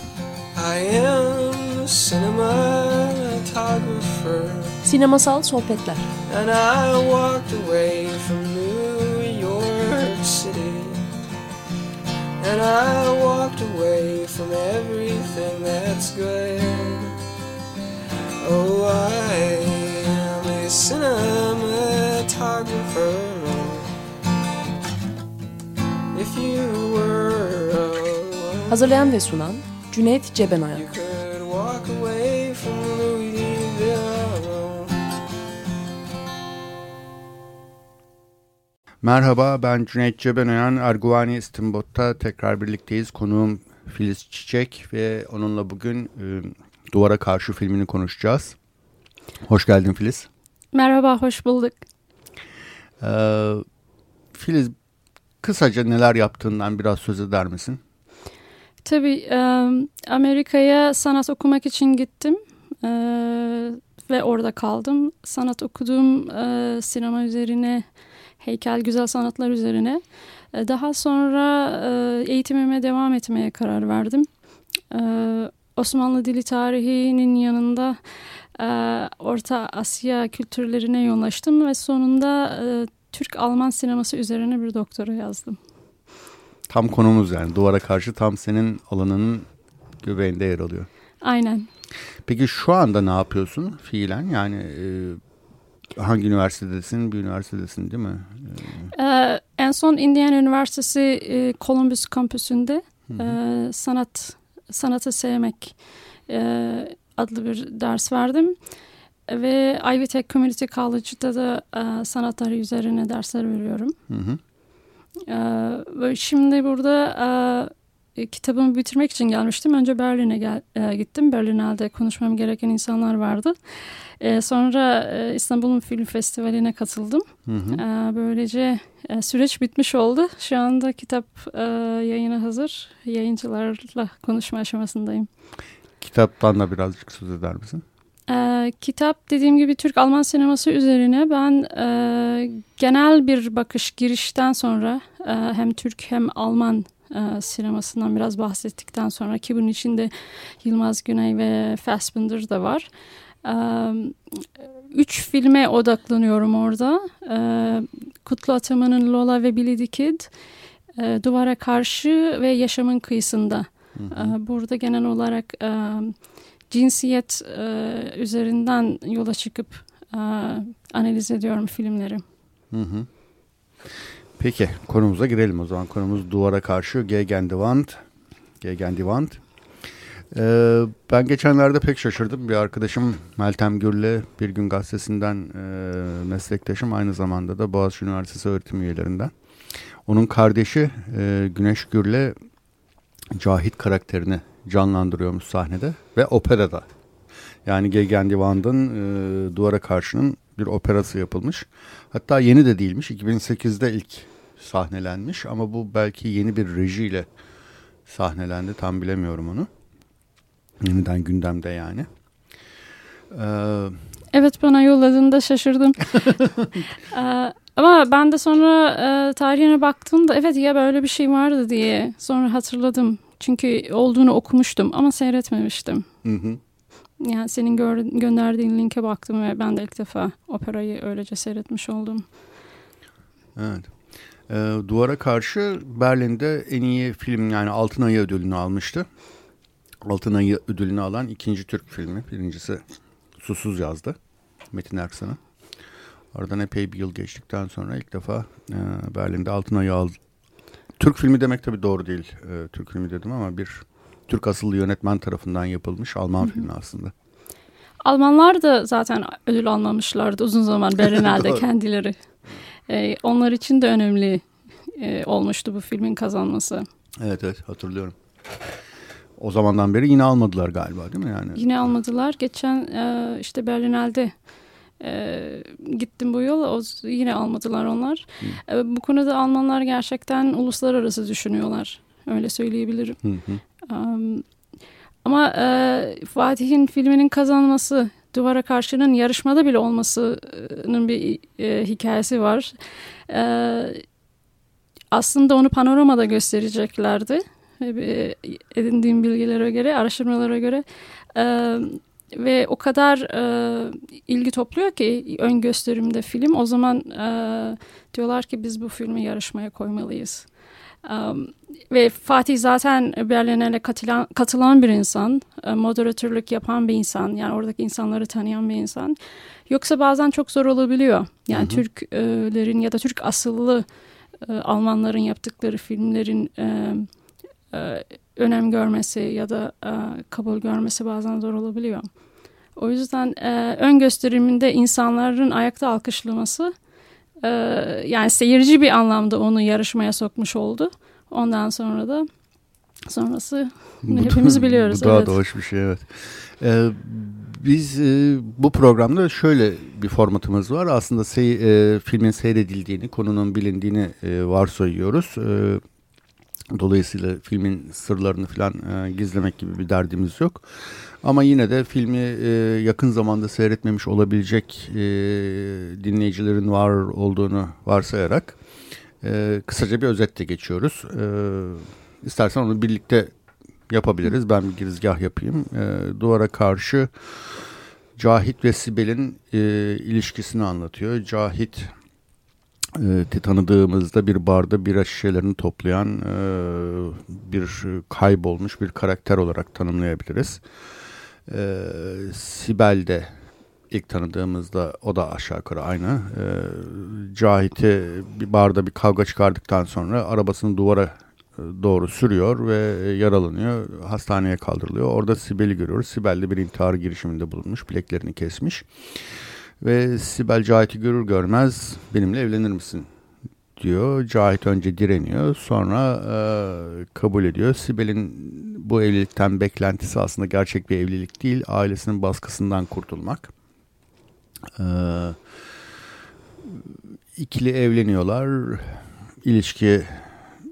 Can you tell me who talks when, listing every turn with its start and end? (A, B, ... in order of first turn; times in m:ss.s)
0:00.5-0:04.8 A
0:04.8-0:06.1 B
0:06.3-0:11.0 A
0:12.4-0:17.2 A
0:18.4-0:23.9 A
0:26.1-0:29.1 A
0:28.7-0:30.8 B
0:30.7-0:35.0 A
0:39.0-0:48.6 C
0:49.4-0:50.3 C
0:50.7-0:51.8 D
0:53.0-0:53.6 C
0:54.3-0:54.7 C
0:55.4-0:57.8 C
0:58.8-1:07.8 D
1:08.4-1:10.0 D
1:10.5-1:14.3 D
1:14.9-1:18.0 D
1:18.6-1:25.6 D
1:26.7-1:29.5 C
1:30.0-1:30.9 C
1:31.2-1:31.7 D
1:32.2-1:35.2 C
1:36.0-1:38.9 C
1:38.9-1:45.7 D
1:43.1-1:43.4 C
1:46.3-1:48.6 D
1:49.3-1:53.9 D
1:54.1-1:54.4 C
1:55.3-2:03.5 D
2:04.2-2:15.3 D
2:07.5-2:07.8 C
2:16.0-2:17.8 C
2:18.3-2:30.1 D
2:30.6-2:32.9 D
2:33.4-2:40.3 D
2:41.0-2:46.2 D
2:43.9-2:44.3 C
2:46.7-2:52.2 D
2:52.7-2:53.1 C
2:54.4-2:58.0 C
2:58.6-2:59.4 C
3:00.3-3:09.3 C
3:10.0-3:12.3 C
3:13.3-3:16.9 C
3:17.6-3:27.3 C
3:28.1-3:29.7 C
3:30.8-3:32.1 C
3:33.3-3:34.0 C
3:34.3-3:36.3 D
3:36.1-3:36.8 C
3:37.1-3:46.1 D
3:46.2-3:46.6 C
3:47.2-3:52.2 D
3:53.6-3:53.9 C
3:54.5-3:59.1 C
4:00.0-4:02.8 C
4:03.4-4:04.2 C
4:04.7-4:05.4 C
4:06.3-4:10.1 C
4:11.0-4:17.1 C
4:18.0-4:22.2 D
4:21.0-4:21.6 C
4:22.9-4:24.4 D
4:25.0-4:26.8 D
4:27.2-4:28.1 C
4:29.4-4:31.6 C
4:31.5-4:34.3 D
4:35.0-4:43.2 D
4:43.2-4:43.6 C
4:43.9-4:44.4 D
4:45.2-4:52.7 D
4:53.3-4:54.0 D
4:55.1-5:10.4 D
5:11.0-5:19.2 D
5:19.7-5:23.8 D
5:21.5-5:21.8 C
5:24.4-5:27.1 D
5:27.7-5:32.1 D
5:32.8-5:36.7 D
5:37.4-5:42.3 D
5:43.1-5:45.4 D
5:44.0-5:55.8 C
5:56.7-6:08.6 C
6:09.2-6:13.3 C
6:13.9-6:17.1 C
6:18.2-6:21.9 C
6:23.0-6:30.6 C
6:31.5-6:33.3 C
6:33.9-6:48.9 C
6:49.8-6:53.1 C
6:53.8-7:03.5 C
7:04.7-7:05.4 C
7:06.6-7:10.3 C